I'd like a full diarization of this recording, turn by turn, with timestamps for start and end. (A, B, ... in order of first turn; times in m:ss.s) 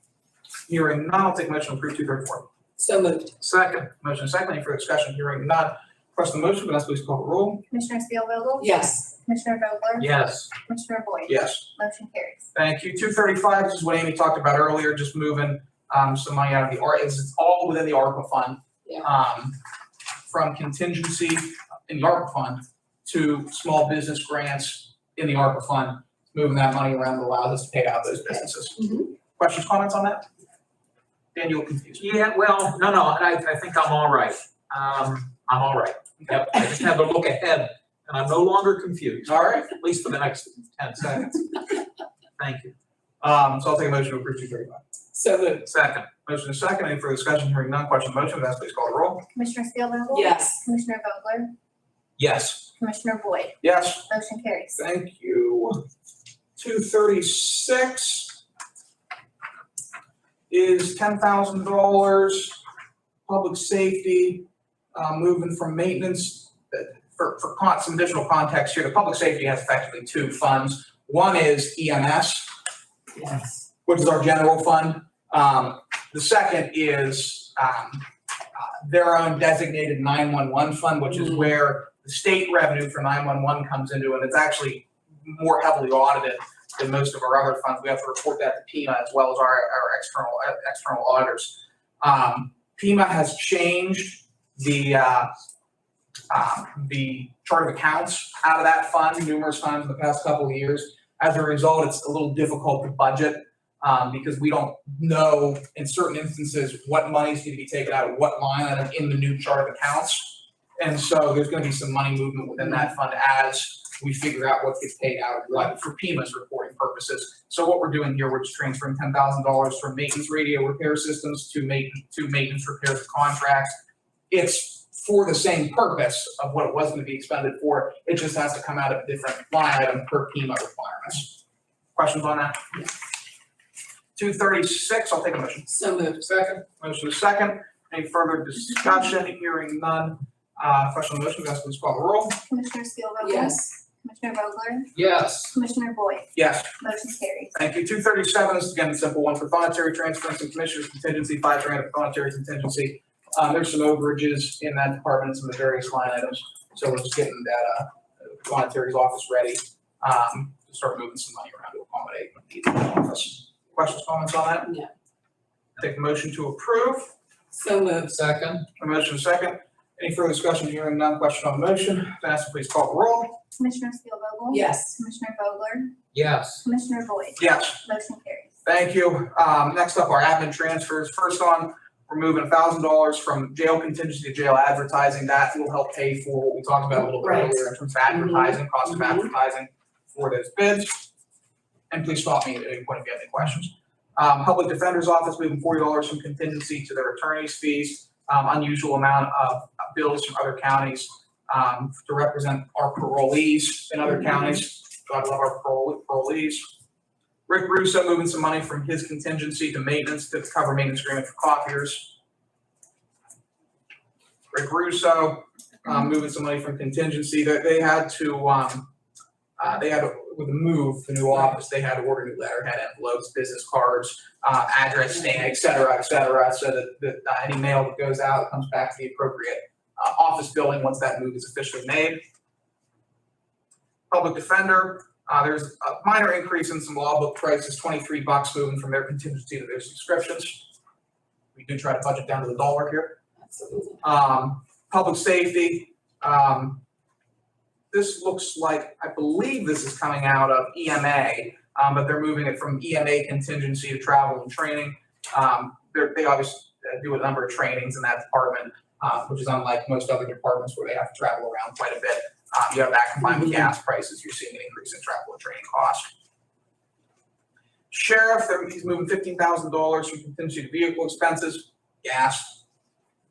0:00.7-0:02.5 A
0:02.8-0:03.3 B
0:03.4-0:03.9 C
0:03.9-0:07.6 A
0:07.7-0:10.1 D
0:08.6-0:09.1 B
0:10.0-0:10.5 C
0:10.6-0:12.5 D
0:11.3-0:11.7 A
0:12.5-0:19.6 A
0:20.3-0:30.3 A
0:28.8-0:29.0 B
0:31.3-0:32.0 A
0:32.0-0:41.5 C
0:39.2-0:39.7 A
0:42.4-0:42.7 C
0:43.2-0:44.8 A
0:45.1-0:45.6 B
0:45.6-0:46.1 C
0:46.2-0:49.2 A
0:49.3-0:51.5 D
0:50.1-0:50.6 B
0:52.2-0:52.6 C
0:52.8-0:54.8 D
0:53.6-0:54.1 A
0:54.7-0:55.8 A
0:56.6-0:58.4 A
1:00.5-1:02.6 A
1:03.3-1:12.5 A
1:13.8-1:35.3 A
1:36.3-2:03.8 A
2:04.3-2:11.4 A
2:11.9-2:12.8 A
2:14.2-2:15.7 A
2:15.7-2:16.4 B
2:16.8-2:22.4 A
2:22.5-2:24.9 D
2:23.2-2:23.6 B
2:24.9-2:25.6 C
2:25.5-2:27.5 D
2:26.3-2:26.7 A
2:27.5-2:44.7 A
2:45.8-2:47.1 A
2:47.5-2:48.0 B
2:47.9-2:48.7 C
2:48.8-2:53.4 A
2:53.6-2:55.9 D
2:54.5-2:55.0 B
2:56.1-2:56.6 C
2:56.6-2:58.5 D
2:57.4-2:57.8 A
2:58.6-3:11.1 A
3:11.9-3:26.7 A
3:27.5-3:32.2 A
3:34.5-3:38.9 A
3:39.6-3:52.2 A
3:54.1-4:00.7 A
4:01.5-4:03.2 A
4:03.5-4:04.0 B
4:04.0-4:06.8 A
4:07.9-4:26.1 A
4:27.9-4:32.6 A